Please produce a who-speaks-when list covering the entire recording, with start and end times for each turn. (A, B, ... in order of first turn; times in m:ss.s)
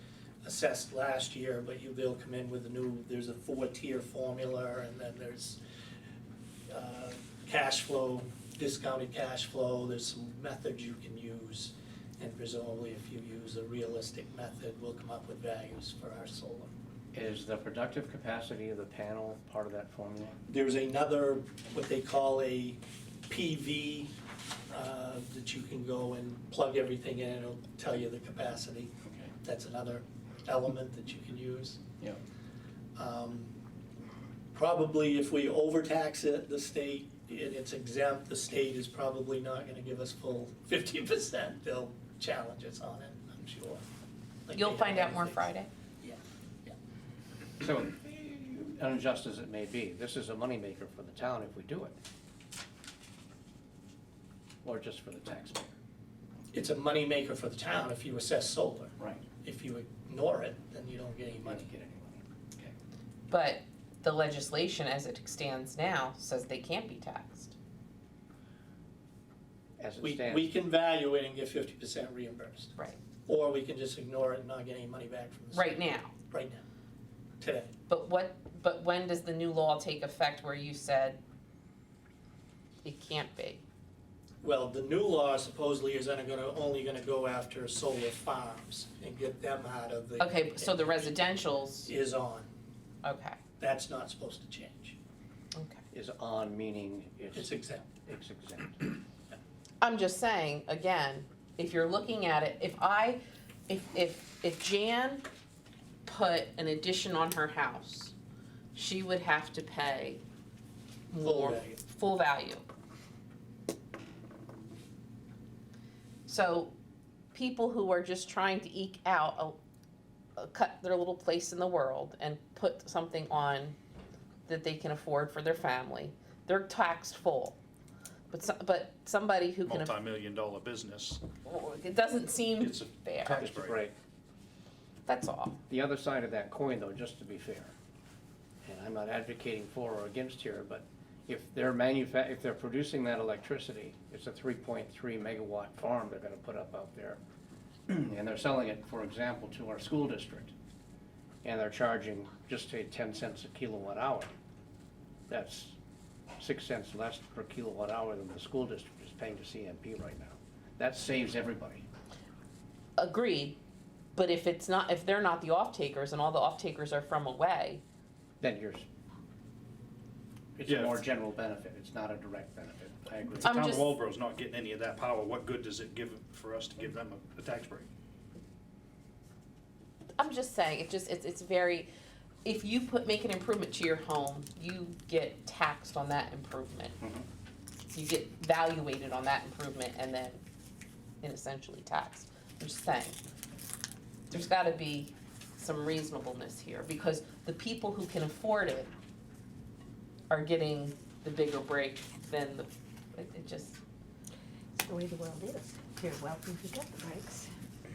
0:00.4-0:05.6 A
0:06.7-0:16.7 A
0:17.1-0:20.4 B
0:20.5-0:24.1 A
0:24.7-0:31.8 A
0:33.0-0:33.5 A
0:34.5-0:43.8 A
0:44.5-0:45.5 A
0:44.5-0:45.7 C
0:46.0-0:46.7 A
0:47.6-0:52.0 B
0:54.6-0:55.8 B
0:56.5-1:01.7 A
1:01.4-1:02.7 B
1:03.3-1:07.5 C
1:09.8-1:10.5 B
1:10.0-1:12.7 A
1:13.3-1:16.6 A
1:15.5-1:16.1 C
1:17.4-1:17.7 A
1:17.9-1:21.2 C
1:22.8-1:23.6 C
1:24.4-1:31.2 A
1:30.2-1:31.9 C
1:31.8-1:32.5 A
1:33.0-1:33.4 C
1:33.6-1:35.0 A
1:35.5-1:35.8 C
1:35.9-1:39.0 B
1:37.3-1:37.8 A
1:39.8-1:45.2 C
1:46.0-1:48.1 C
1:48.7-1:50.2 C
1:51.1-1:52.6 C
1:51.2-1:51.8 A
1:56.3-1:56.7 C
1:57.3-1:59.6 C
2:00.4-2:03.8 C
2:04.4-2:07.6 C
2:08.3-2:09.9 C
2:09.6-2:11.2 D
2:11.4-2:13.4 C
2:12.6-2:13.8 D
2:13.4-2:13.9 B
2:15.1-2:15.6 C
2:15.7-2:17.7 B
2:18.6-2:27.2 B
2:27.9-2:30.5 B
2:31.4-2:34.3 B
2:35.3-2:35.8 B
2:36.4-2:41.8 B
2:43.0-2:43.6 C
2:44.1-2:47.8 C
2:48.4-2:48.8 B
2:50.6-2:53.5 B
2:50.7-2:51.0 D
2:53.4-2:57.9 D
2:53.4-2:53.9 C
3:00.2-3:01.9 C
3:02.4-3:07.0 C
3:07.0-3:07.2 B
3:07.9-3:10.4 C
3:11.2-3:13.2 C
3:14.3-3:18.9 C
3:20.3-3:23.8 C
3:24.8-3:27.4 E